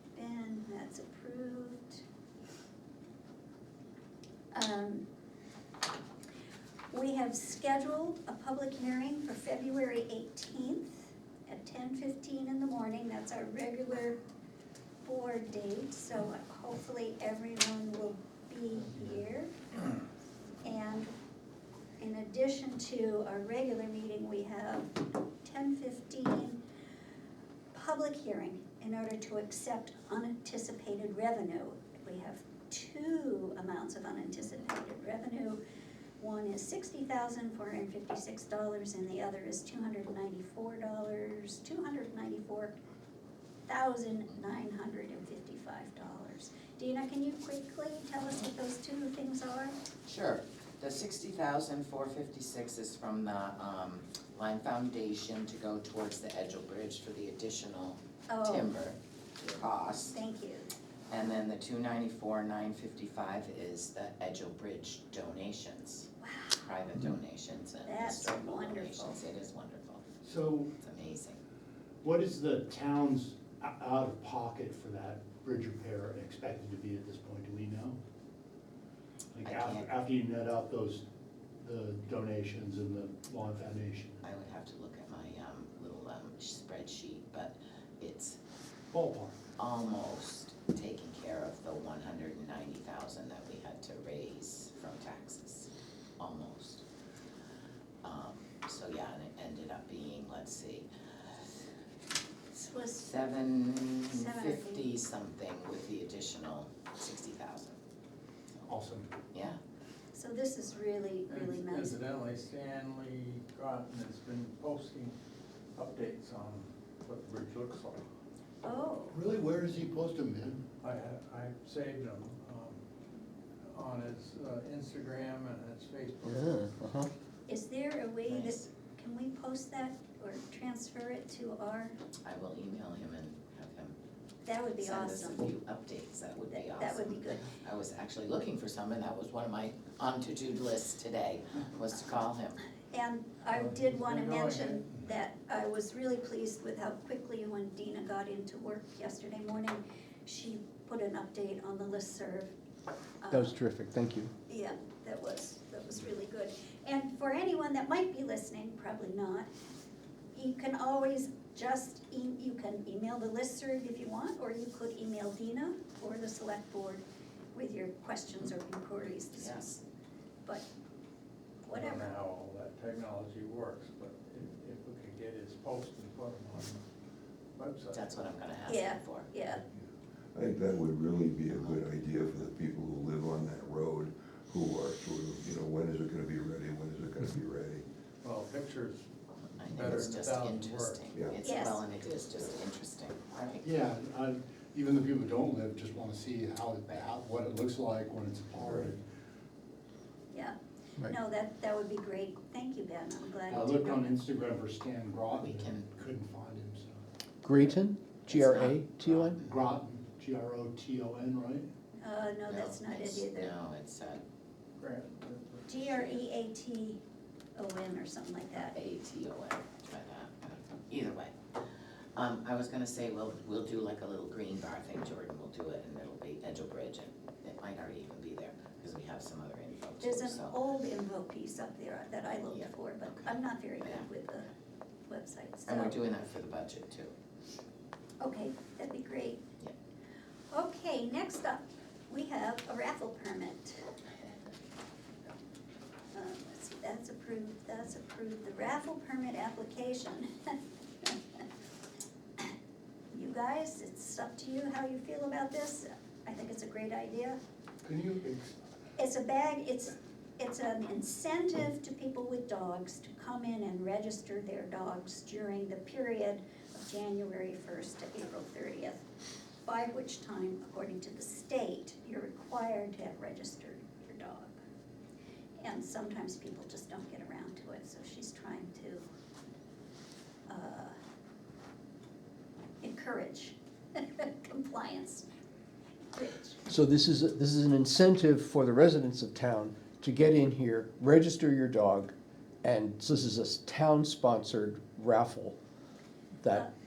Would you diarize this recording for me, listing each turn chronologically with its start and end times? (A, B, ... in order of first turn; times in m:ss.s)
0:00.2-0:02.0 A
0:04.5-0:05.0 A
0:06.9-0:14.2 A
0:15.0-0:19.5 A
0:20.6-0:21.1 A
0:22.0-0:26.6 A
0:27.7-0:35.6 A
0:36.2-0:42.8 A
0:43.7-0:49.8 A
0:50.1-1:00.2 B
0:58.3-0:58.7 A
1:00.1-1:00.7 A
1:01.1-1:10.0 B
1:06.2-1:06.7 A
1:07.8-1:09.2 A
1:10.2-1:10.7 C
1:10.8-1:11.4 B
1:12.0-1:18.0 C
1:19.3-1:21.0 C
1:19.4-1:19.9 B
1:21.6-1:24.2 C
1:24.2-1:28.4 B
1:28.9-1:29.4 C
1:29.6-1:36.8 B
1:38.0-1:40.9 B
1:42.5-1:43.2 A
1:43.0-1:47.8 B
1:44.0-1:44.9 A
1:48.7-1:49.1 C
1:49.3-1:49.6 B
1:50.1-1:52.0 A
1:51.3-1:55.1 D
1:55.8-1:58.0 D
1:58.6-1:59.2 A
1:59.1-2:00.6 C
2:00.8-2:02.8 D
2:03.7-2:07.0 D
2:06.3-2:07.1 E
2:07.5-2:11.9 A
2:08.3-2:08.7 B
2:12.2-2:14.0 B
2:14.4-2:15.5 A
2:14.8-2:22.6 B
2:16.5-2:17.5 A
2:22.9-2:32.5 A
2:23.5-2:25.0 D
2:33.2-2:33.6 A
2:33.3-2:34.3 E
2:34.5-2:39.5 A
2:40.3-2:47.0 A
2:47.5-2:49.8 A
2:49.4-2:49.7 B
2:51.7-2:52.2 A
2:51.7-2:56.8 D
2:57.6-2:58.2 D
2:57.9-2:59.3 B
2:58.7-2:59.6 A
3:00.3-3:07.8 F
3:01.5-3:01.8 B
3:08.2-3:09.1 D
3:09.6-3:13.6 B
3:09.6-3:11.1 D
3:11.4-3:11.8 A
3:13.6-3:19.0 C
3:18.6-3:18.9 F
3:20.3-3:24.1 A
3:23.5-3:27.0 C
3:25.3-3:25.8 B
3:27.4-3:29.3 E
3:28.3-3:29.4 B
3:29.4-3:31.7 C
3:32.0-3:33.5 A
3:32.5-3:34.2 B
3:34.8-3:36.1 D
3:35.7-3:37.0 A
3:37.6-3:38.8 A
3:38.7-3:41.4 B
3:42.2-3:50.6 B
3:50.0-3:54.5 A
3:52.5-3:54.1 B
3:55.1-3:56.0 A
3:55.7-3:57.1 B
3:58.2-3:59.4 A
4:00.5-4:03.9 A
4:06.1-4:11.4 A
4:13.1-4:17.4 A
4:17.8-4:18.6 C
4:19.0-4:29.1 A
4:29.6-4:34.6 A
4:35.6-4:39.1 A
4:40.5-4:41.0 A
4:42.8-4:45.3 A
4:46.1-4:46.6 A
4:46.7-4:52.1 E
4:52.6-4:55.6 E